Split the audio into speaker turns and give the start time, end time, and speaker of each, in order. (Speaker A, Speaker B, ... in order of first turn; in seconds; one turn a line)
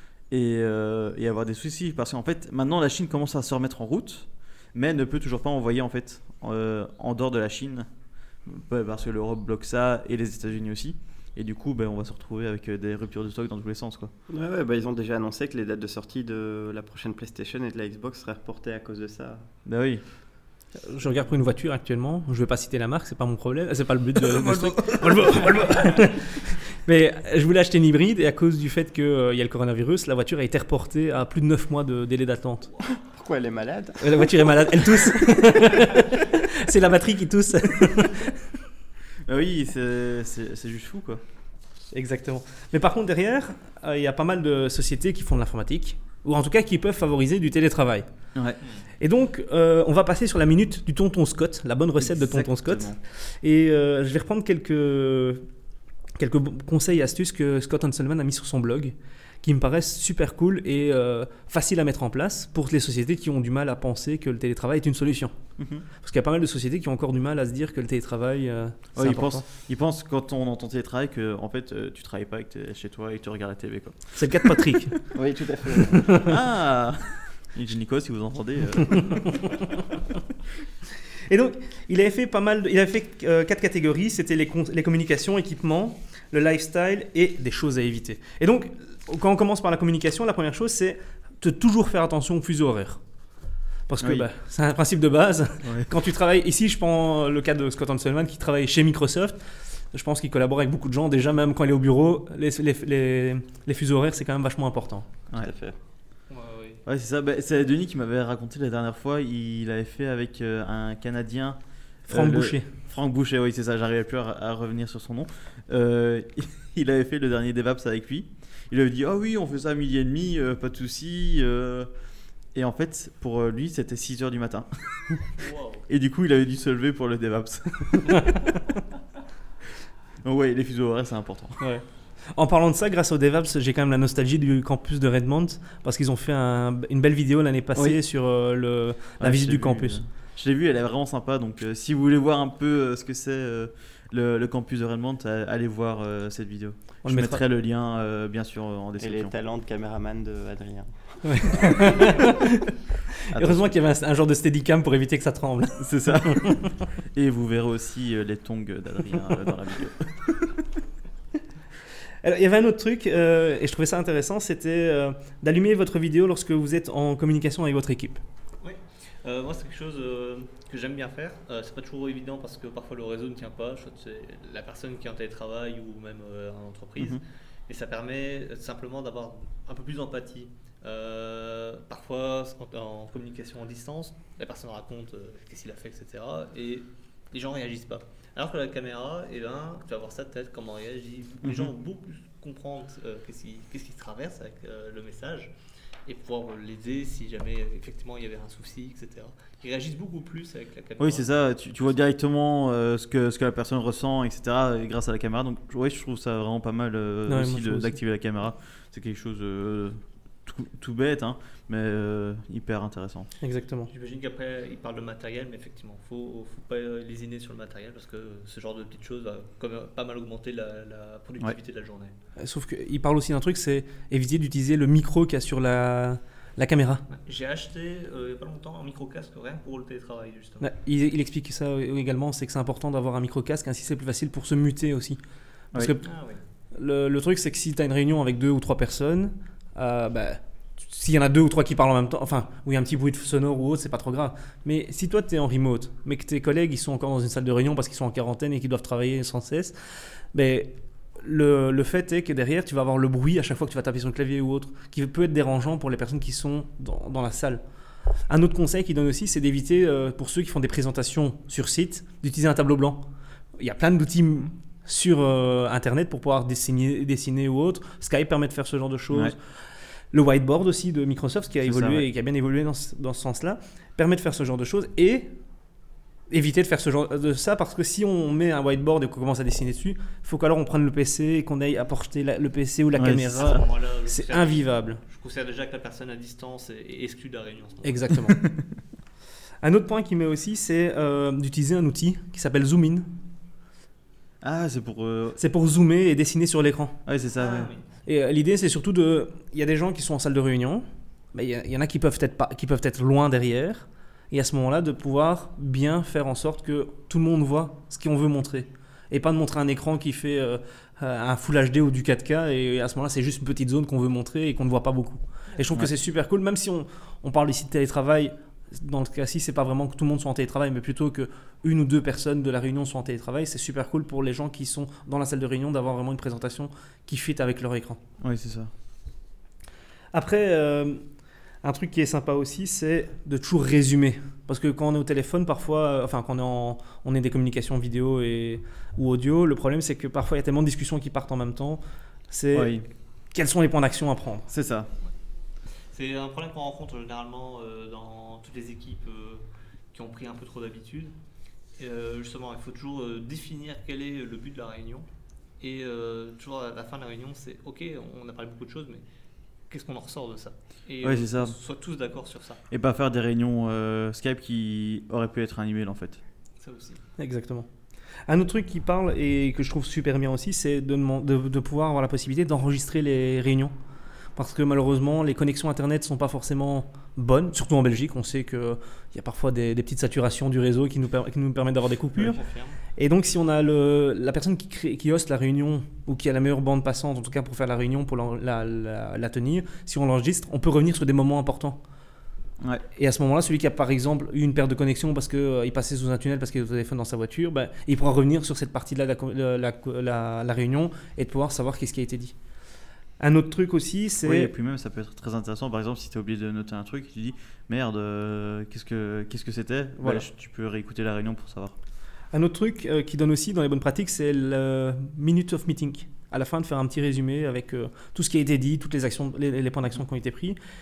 Speaker A: 0.3-7.9
Speaker A: 8.4-14.1
Speaker B: 14.3-19.5
Speaker A: 19.6-20.0
Speaker C: 20.8-32.8
Speaker A: 24.4-25.3
Speaker B: 33.0-34.3
Speaker C: 34.0-38.5
Speaker A: 39.2-41.2
Speaker C: 41.9-48.0
Speaker A: 48.3-48.6
Speaker C: 49.0-55.5
Speaker A: 52.0-53.0
Speaker C: 56.2-65.3
Speaker A: 65.6-65.8
Speaker C: 65.9-69.4
Speaker A: 69.0-74.6
Speaker C: 74.2-75.1
Speaker B: 75.1-76.2
Speaker C: 75.9-76.3
Speaker A: 76.2-79.7
Speaker C: 81.3-93.0
Speaker C: 93.9-105.1
Speaker A: 94.0-94.3
Speaker A: 95.6-95.9
Speaker B: 105.4-105.8
Speaker D: 106.3-106.8
Speaker A: 106.8-121.9
Speaker C: 112.1-112.7
Speaker A: 122.5-125.3
Speaker D: 125.4-125.8
Speaker A: 125.9-128.3
Speaker A: 130.2-131.6
Speaker C: 131.6-140.0
Speaker A: 139.2-149.3
Speaker C: 147.0-147.4
Speaker B: 149.0-152.1
Speaker C: 151.2-152.7
Speaker A: 153.3-153.7
Speaker C: 153.3-156.8
Speaker A: 155.8-160.6
Speaker C: 162.2-168.2
Speaker D: 168.6-195.5
Speaker A: 191.4-191.7
Speaker D: 196.1-201.3
Speaker A: 201.0-213.3
Speaker C: 207.3-208.0
Speaker C: 213.4-213.9
Speaker D: 213.9-222.1
Speaker C: 222.4-227.0
Speaker D: 227.1-230.7
Speaker C: 230.6-235.2
Speaker C: 235.7-236.1
Speaker D: 236.0-236.4
Speaker C: 236.7-257.6
Speaker C: 258.3-263.0
Speaker C: 263.6-269.4
Speaker C: 270.1-275.3
Speaker A: 271.6-272.1
Speaker C: 276.3-285.0
Speaker A: 283.0-283.6
Speaker D: 283.1-288.1
Speaker C: 287.8-288.4
Speaker C: 289.6-293.1
Speaker A: 294.4-295.4
Speaker C: 295.4-297.0
Speaker A: 297.1-297.7
Speaker D: 297.4-297.8
Speaker C: 298.1-328.0
Speaker A: 328.2-328.7
Speaker C: 330.1-331.0
Speaker C: 331.6-342.8
Speaker A: 342.5-342.9
Speaker C: 343.3-344.5
Speaker A: 344.5-344.9
Speaker D: 345.9-351.1
Speaker D: 351.8-355.1
Speaker D: 355.6-359.0
Speaker D: 359.7-362.6
Speaker A: 361.0-361.5
Speaker A: 362.7-366.2
Speaker D: 366.6-367.0
Speaker C: 367.2-367.7
Speaker C: 368.3-373.7
Speaker C: 374.4-382.4
Speaker D: 382.2-382.8
Speaker C: 382.9-391.8
Speaker C: 392.9-402.3
Speaker C: 403.2-404.5
Speaker A: 404.2-411.7
Speaker C: 410.0-410.2
Speaker C: 412.3-420.6